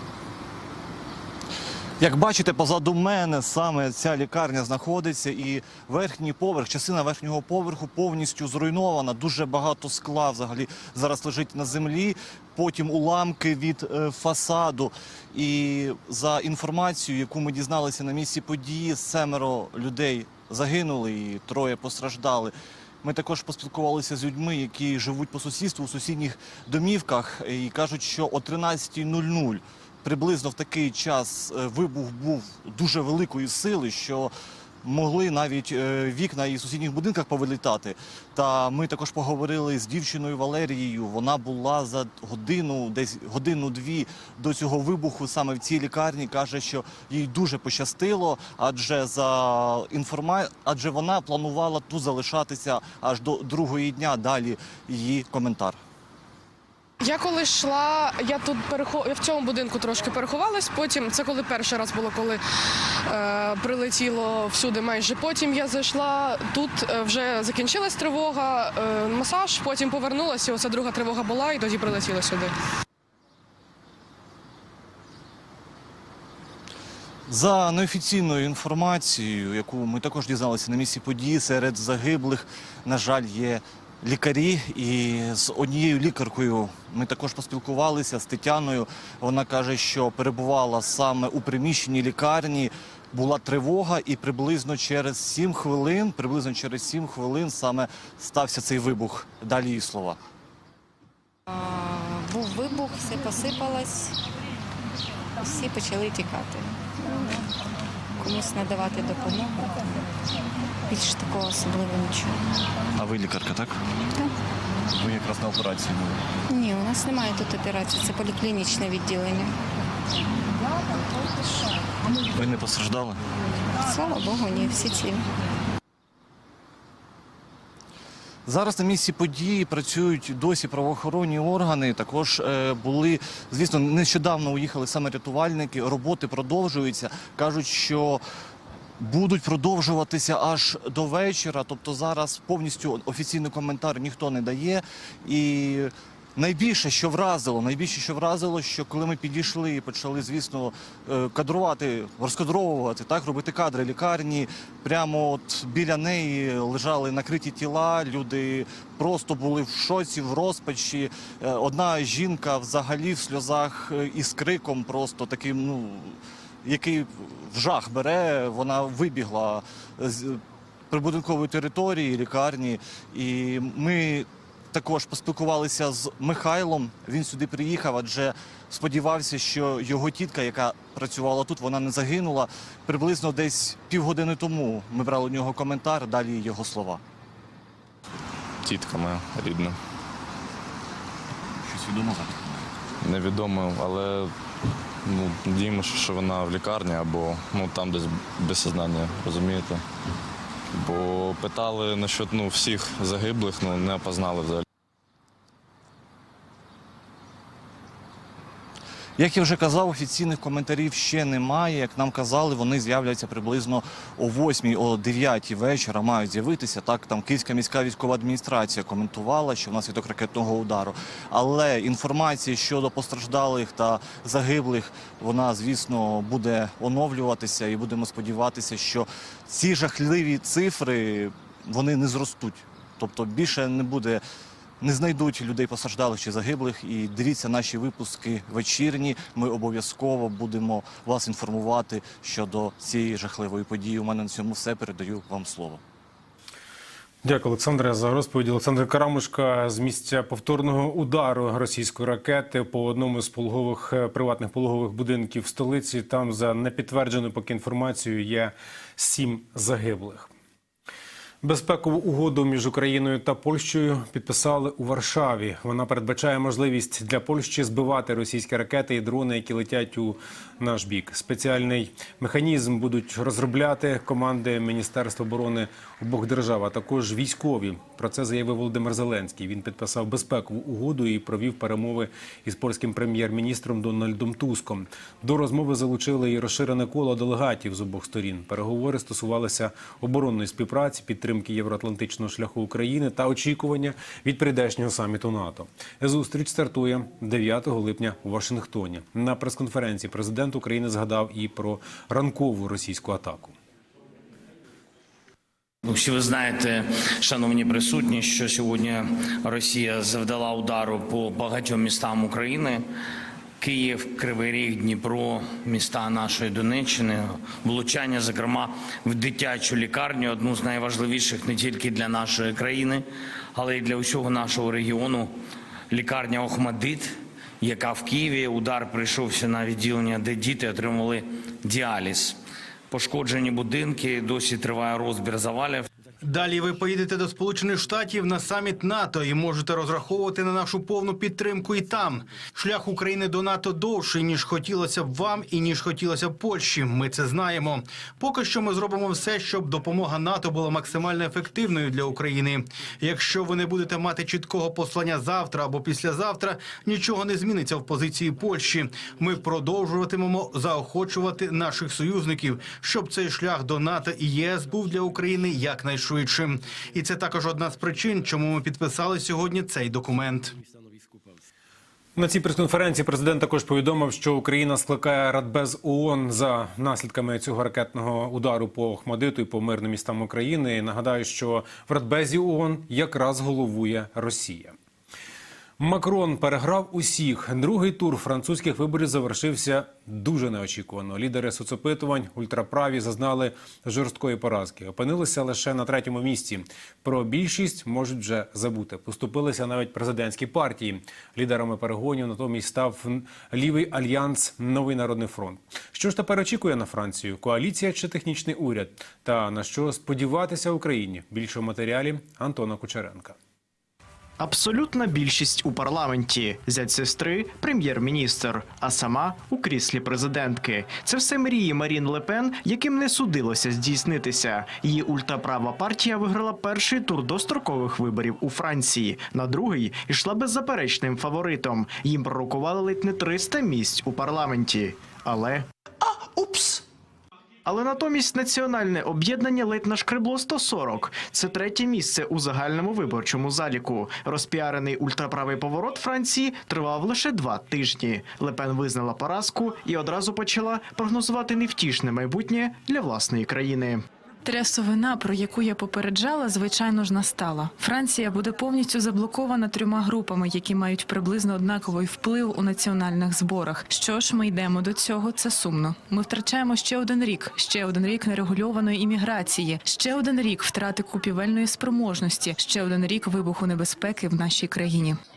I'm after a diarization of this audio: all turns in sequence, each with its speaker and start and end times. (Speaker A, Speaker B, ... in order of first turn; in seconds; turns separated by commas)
Speaker A: 2.0-55.8, Speaker B: 57.0-62.4, Speaker B: 63.0-72.5, Speaker A: 77.3-100.2, Speaker C: 101.5-104.2, Speaker C: 105.4-107.4, Speaker C: 108.2-110.1, Speaker C: 110.9-112.4, Speaker A: 113.0-113.8, Speaker A: 115.0-116.2, Speaker C: 116.5-119.5, Speaker A: 122.3-123.2, Speaker C: 123.8-125.2, Speaker A: 128.4-138.2, Speaker A: 139.0-187.0, Speaker D: 188.6-189.8, Speaker A: 191.7-192.4, Speaker D: 193.0-194.3, Speaker D: 195.1-199.8, Speaker D: 200.7-204.6, Speaker A: 209.2-234.2, Speaker A: 234.8-245.8, Speaker E: 247.2-260.3, Speaker E: 261.4-303.5, Speaker F: 305.8-312.8, Speaker F: 313.6-325.3, Speaker F: 325.9-332.4, Speaker F: 332.9-335.8, Speaker G: 336.2-370.6, Speaker E: 372.1-384.7, Speaker E: 385.8-413.4, Speaker H: 414.4-435.6, Speaker H: 436.4-436.8, Speaker H: 437.6-454.0, Speaker I: 454.4-475.2